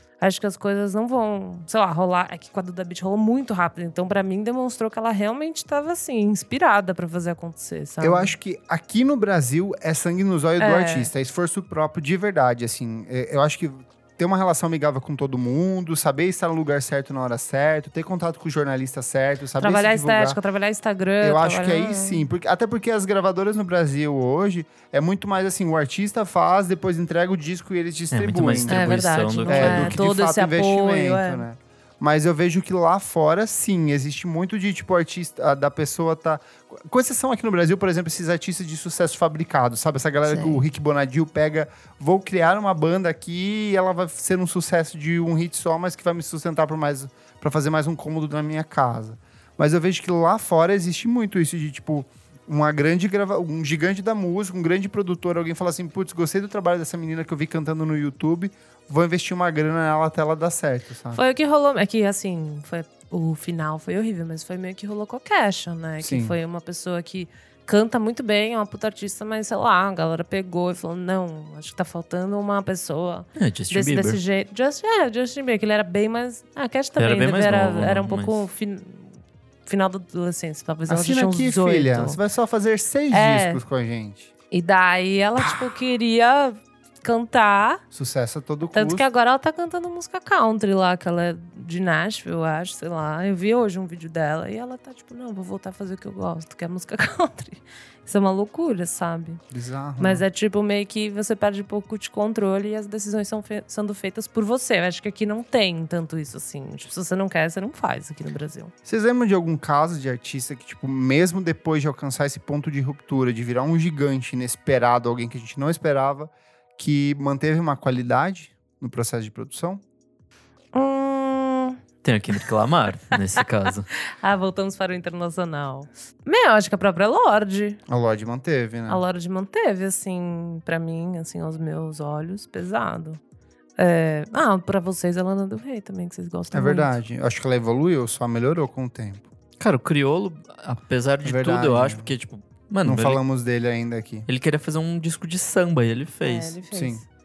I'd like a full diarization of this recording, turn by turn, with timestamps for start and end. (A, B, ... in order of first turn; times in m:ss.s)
0:00.2-0:08.3 A
0:08.0-0:20.4 B
0:10.6-0:11.1 A
0:19.6-0:22.2 A
0:21.2-1:01.2 B
0:28.1-0:30.0 C
0:28.7-0:31.4 A
0:40.2-0:40.6 A
1:01.1-1:22.2 A
1:06.0-1:06.3 B
1:13.4-1:14.2 C
1:17.0-1:18.4 C
1:20.9-1:24.3 B
1:23.1-1:23.6 A
1:24.5-1:27.8 A
1:27.9-1:29.0 B
1:28.7-1:39.4 A
1:39.5-1:40.2 B
1:40.0-1:48.7 A
1:48.8-1:59.8 B
2:00.7-2:01.8 A
2:02.0-2:03.9 C
2:04.0-2:07.8 A
2:07.9-2:09.0 B
2:08.9-2:13.2 A
2:13.8-2:16.9 A
2:16.5-2:19.3 B
2:19.6-2:23.2 C
2:21.2-2:22.1 B
2:22.8-2:24.3 B
2:24.3-2:26.6 C
2:26.2-2:27.0 A
2:26.7-2:27.0 B